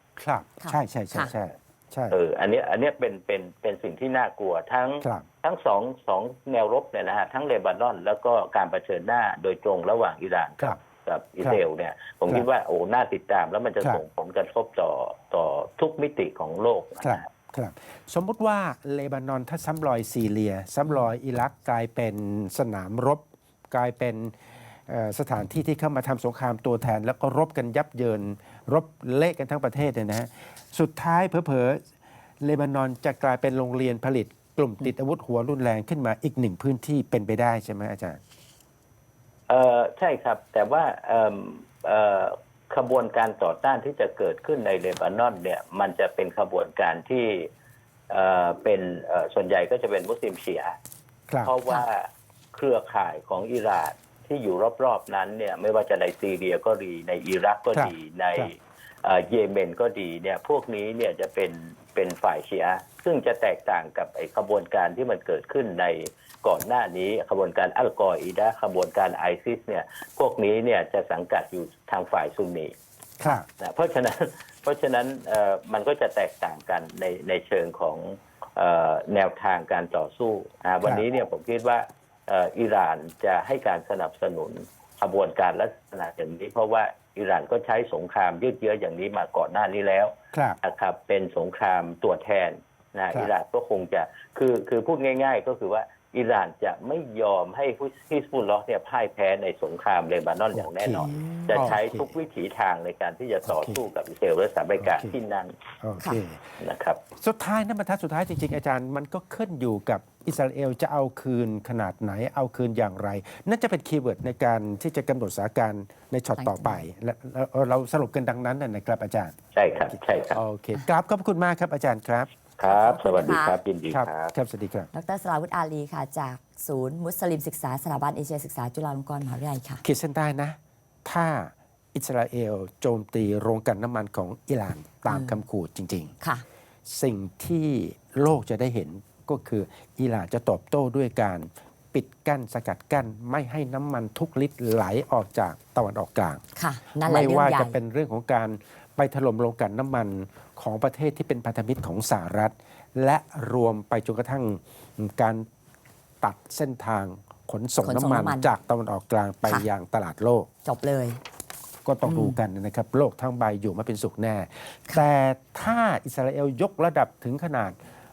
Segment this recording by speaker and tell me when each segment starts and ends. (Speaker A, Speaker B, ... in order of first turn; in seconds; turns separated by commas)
Speaker A: 0.2-2.2, Speaker B: 0.6-1.3, Speaker C: 2.1-17.3, Speaker A: 17.0-31.8, Speaker A: 32.4-38.2, Speaker C: 39.5-47.5, Speaker C: 48.1-50.7, Speaker A: 51.3-51.5, Speaker C: 51.4-72.7, Speaker A: 57.7-58.5, Speaker A: 73.2-73.5, Speaker C: 73.3-105.5, Speaker A: 90.3-90.6, Speaker A: 100.5-102.1, Speaker B: 101.5-101.8, Speaker A: 103.5-103.8, Speaker A: 104.8-105.2, Speaker A: 105.8-106.6, Speaker C: 106.6-107.0, Speaker A: 107.2-119.4, Speaker B: 116.4-116.8, Speaker C: 119.5-120.4, Speaker A: 119.9-122.3, Speaker C: 122.6-124.3, Speaker B: 122.6-123.6, Speaker A: 123.9-124.9, Speaker B: 124.9-129.8, Speaker A: 129.8-136.1, Speaker B: 135.1-135.4, Speaker A: 136.9-146.4, Speaker B: 146.6-147.8, Speaker A: 147.0-155.5, Speaker A: 156.2-160.5, Speaker B: 157.8-158.5, Speaker B: 160.7-161.2, Speaker A: 161.8-167.8, Speaker B: 162.1-162.4